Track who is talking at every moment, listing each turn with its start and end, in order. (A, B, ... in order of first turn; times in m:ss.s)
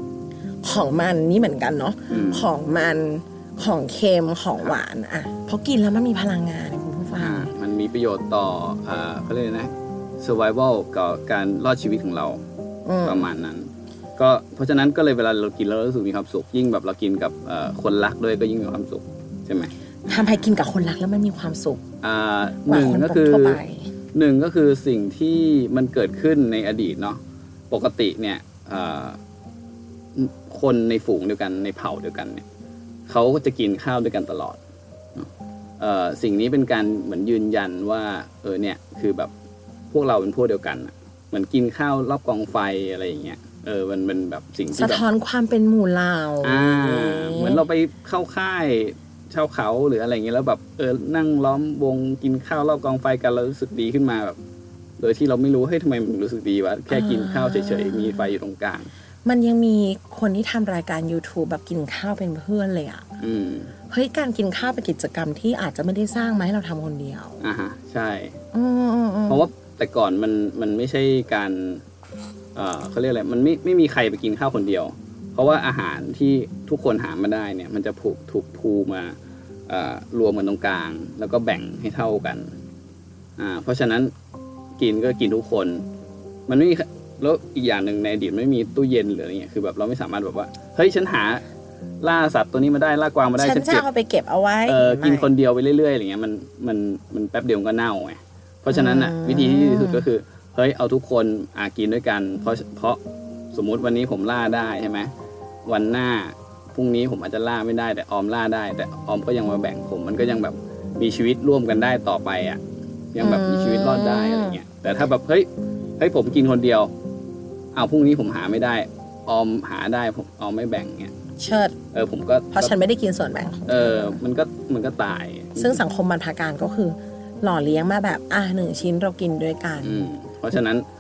0:00.6-0:07.5 A
0:02.1-0:02.4 B
0:07.2-0:12.4 B
0:12.8-0:13.3 A
0:13.0-0:20.5 B
0:20.1-0:21.8 A
0:22.0-0:23.6 B
0:22.7-0:23.9 A
0:24.1-0:27.2 B
0:27.7-0:29.2 B
0:30.2-0:32.4 B
0:33.1-0:34.6 B
0:35.8-0:39.3 B
0:39.9-0:45.1 B
0:44.7-0:47.6 A
0:46.4-0:54.4 B
0:55.0-0:58.9 B
0:56.9-0:58.3 A
0:59.2-1:03.1 A
1:03.2-1:03.7 B
1:03.9-1:07.4 A
1:07.4-1:08.4 B
1:08.5-1:09.5 A
1:09.3-1:11.8 B
1:12.5-1:19.2 B
1:19.7-1:22.5 B
1:23.4-1:24.1 B
1:24.8-1:25.8 B
1:26.5-1:31.4 B
1:32.0-1:33.9 B
1:33.4-1:35.3 A
1:34.6-1:43.0 B
1:38.7-1:40.1 A
1:43.5-1:45.1 B
1:45.6-1:52.6 B
1:53.1-1:56.9 B
1:53.2-1:54.6 A
1:57.7-2:01.1 B
2:01.4-2:01.7 A
2:01.9-2:02.7 B
2:02.5-2:04.2 A
2:03.7-2:05.8 B
2:05.6-2:10.1 A
2:09.8-2:10.8 B